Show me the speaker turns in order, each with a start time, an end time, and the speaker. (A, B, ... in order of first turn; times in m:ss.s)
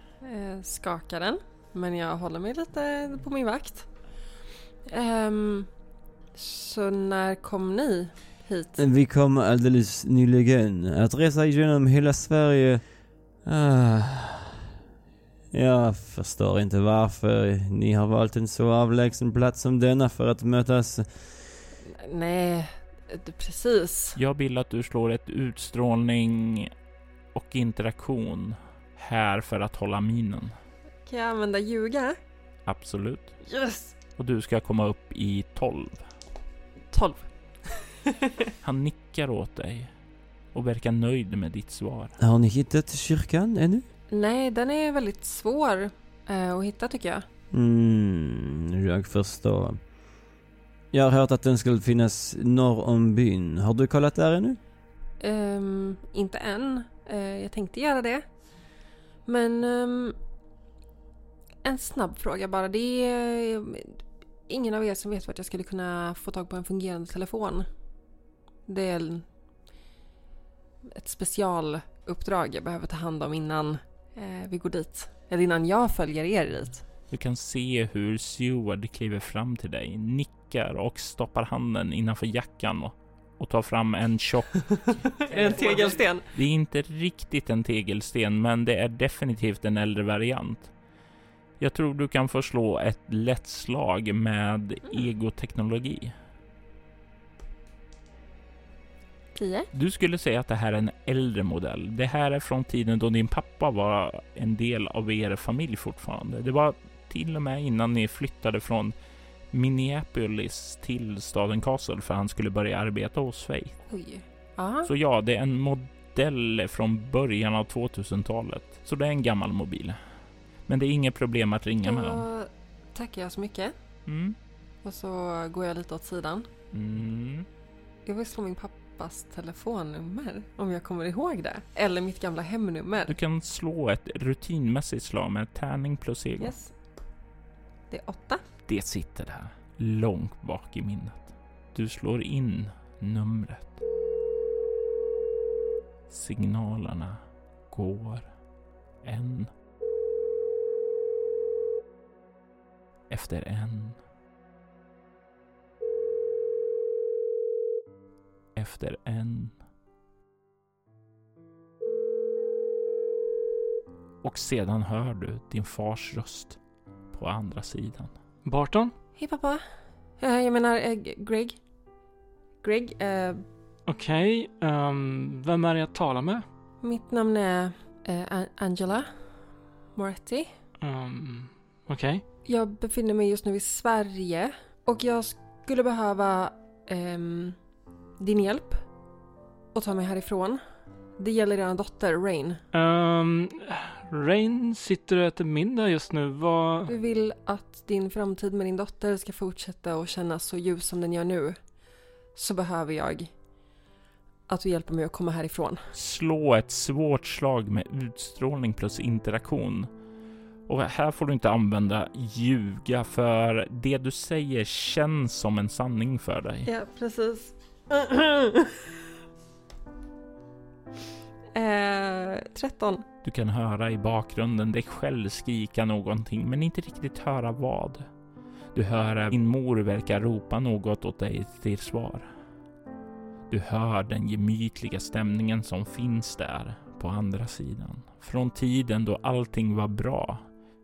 0:00.2-0:08.8 A
0:08.8-0:14.5 B
0:15.5-0:21.6 B
0:21.8-0:24.2 A
0:24.2-0:26.7 C
0:27.3-0:30.6 C
0:31.0-0:32.2 A
0:32.6-0:33.6 C
0:33.4-0:34.0 A
0:34.2-0:36.1 C
0:36.9-0:37.9 A
0:38.6-0:42.2 C
0:42.2-0:43.9 B
0:44.1-0:47.3 A
0:47.5-0:50.0 B
0:50.9-0:54.6 B
0:55.2-1:00.2 A
1:01.6-1:07.9 A
1:08.6-1:09.3 A
1:10.9-1:16.8 A
1:17.1-1:30.9 C
1:25.2-1:26.3 A
1:31.6-1:36.2 C
1:39.3-1:39.7 A
1:39.7-1:53.9 C
1:53.9-1:54.9 A
1:54.8-2:02.3 C
2:01.8-2:04.2 A
2:04.1-2:04.4 C
2:04.8-2:06.5 A
2:06.7-2:07.5 C
2:08.0-2:13.1 A
2:13.1-2:16.6 C
2:16.4-2:17.0 A
2:17.9-2:18.4 A
2:18.6-2:23.8 C
2:26.1-2:28.4 C
2:29.0-2:29.5 C
2:33.1-2:34.0 C
2:38.6-2:39.6 C
2:44.2-2:48.2 C
2:48.4-2:49.0 D
2:49.2-2:49.6 A
2:50.2-2:51.7 A
2:52.6-2:53.5 A
2:53.9-2:56.5 D
2:56.8-3:00.6 A
3:00.8-3:02.2 D
3:02.4-3:09.2 A
3:09.7-3:12.6 A
3:12.7-3:16.9 D
3:16.9-3:23.4 A
3:24.5-3:25.8 A
3:25.9-3:29.9 C
3:30.7-3:36.7 C
3:36.6-3:38.7 A
3:41.5-3:43.0 A
3:43.2-3:48.1 C
3:48.7-3:52.3 C
3:53.5-4:00.6 C